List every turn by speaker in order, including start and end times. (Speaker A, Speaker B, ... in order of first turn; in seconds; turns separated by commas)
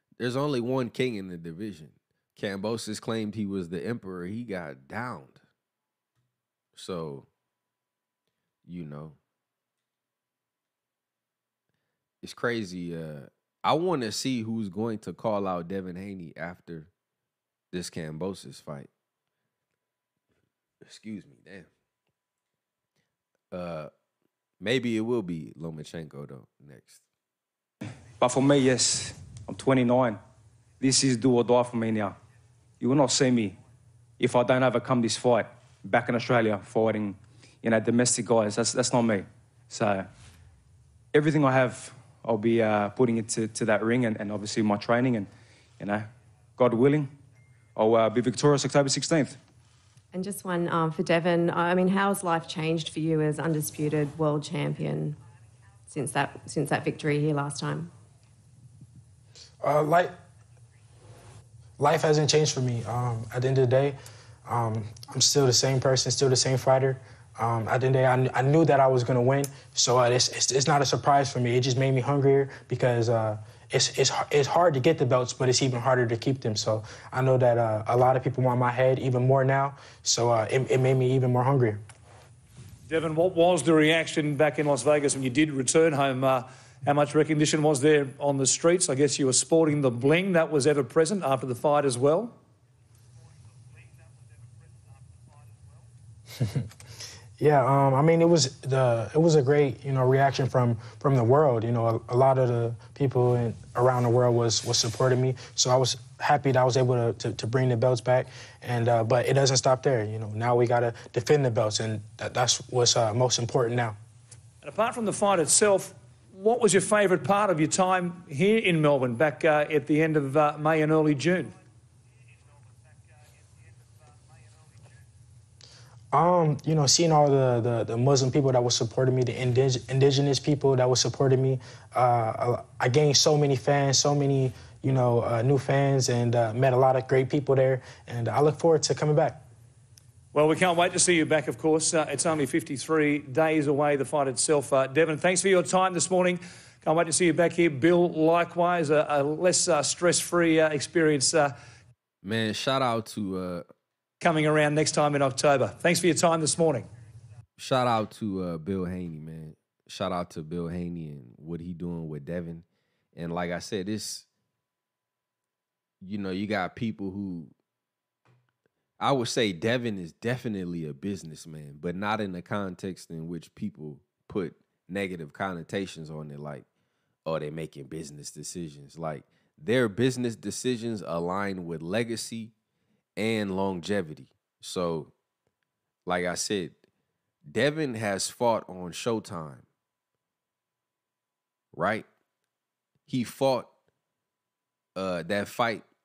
Speaker A: 0.2-5.4, Speaker A: 6.8-7.3, Speaker A: 8.7-9.2, Speaker A: 12.2-16.9, Speaker A: 17.7-18.9, Speaker A: 20.8-21.7, Speaker A: 23.5-23.9, Speaker A: 24.6-27.0, Speaker B: 28.2-30.2, Speaker B: 30.8-32.1, Speaker B: 32.8-33.6, Speaker B: 34.2-40.1, Speaker B: 41.1-45.3, Speaker B: 45.8-46.1, Speaker B: 46.6-47.1, Speaker B: 47.8-49.4, Speaker C: 50.1-55.2, Speaker C: 55.9-57.9, Speaker D: 59.6-60.1, Speaker D: 61.8-81.8, Speaker E: 82.9-92.3, Speaker D: 97.4-114.0, Speaker E: 114.6-121.5, Speaker D: 126.1-139.4, Speaker E: 140.3-151.5, Speaker A: 152.2-153.7, Speaker E: 154.2-156.9, Speaker A: 157.6-164.3, Speaker A: 166.0-167.5, Speaker A: 169.0-176.7, Speaker A: 177.2-182.5, Speaker A: 183.2-185.1, Speaker A: 186.1-186.8, Speaker A: 187.4-189.7, Speaker A: 191.7-192.1, Speaker A: 193.1-193.7, Speaker A: 195.0-195.9